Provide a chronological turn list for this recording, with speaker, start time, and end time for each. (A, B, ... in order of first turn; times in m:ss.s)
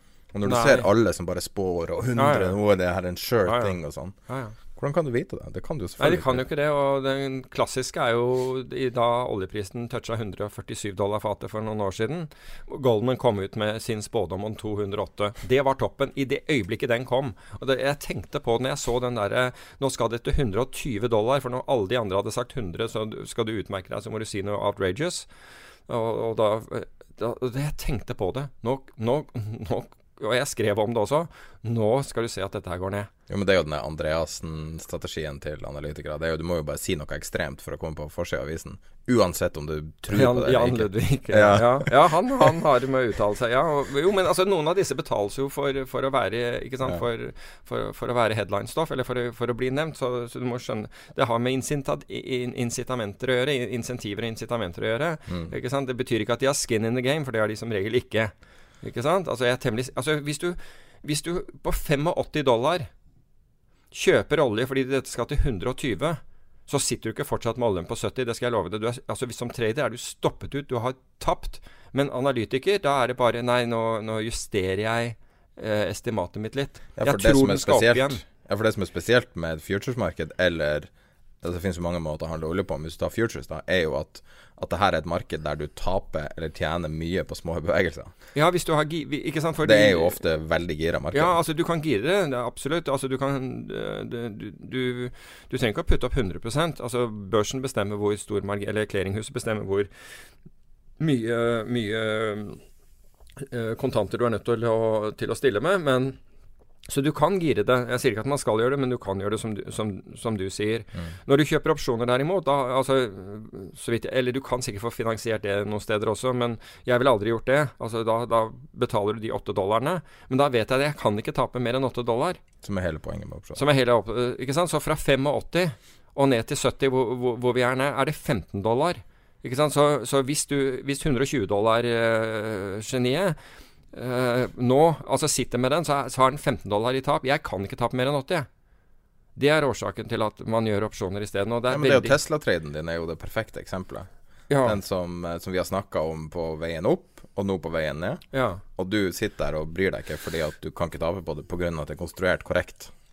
0:00.3-0:06.4 A
0:00.4-0:00.9 B
0:02.2-0:02.6 B
0:03.4-0:04.6 B
0:06.0-0:25.3 B
0:25.9-0:33.1 B
0:33.3-0:42.6 A
0:40.1-1:02.9 B
0:55.3-0:55.5 A
1:03.9-1:18.2 B
1:17.0-1:20.9 A
1:21.4-1:28.1 A
1:28.3-1:30.2 B
1:29.6-1:31.4 A
1:31.1-1:39.9 B
1:41.0-1:42.6 B
1:43.4-1:46.2 B
1:46.9-2:02.4 B
2:02.6-2:03.6 A
2:03.6-2:13.4 B
2:13.9-2:18.5 B
2:19.4-2:22.2 B
2:21.7-2:28.2 A
2:24.5-2:24.8 B
2:28.3-2:28.6 B
2:28.8-2:32.9 A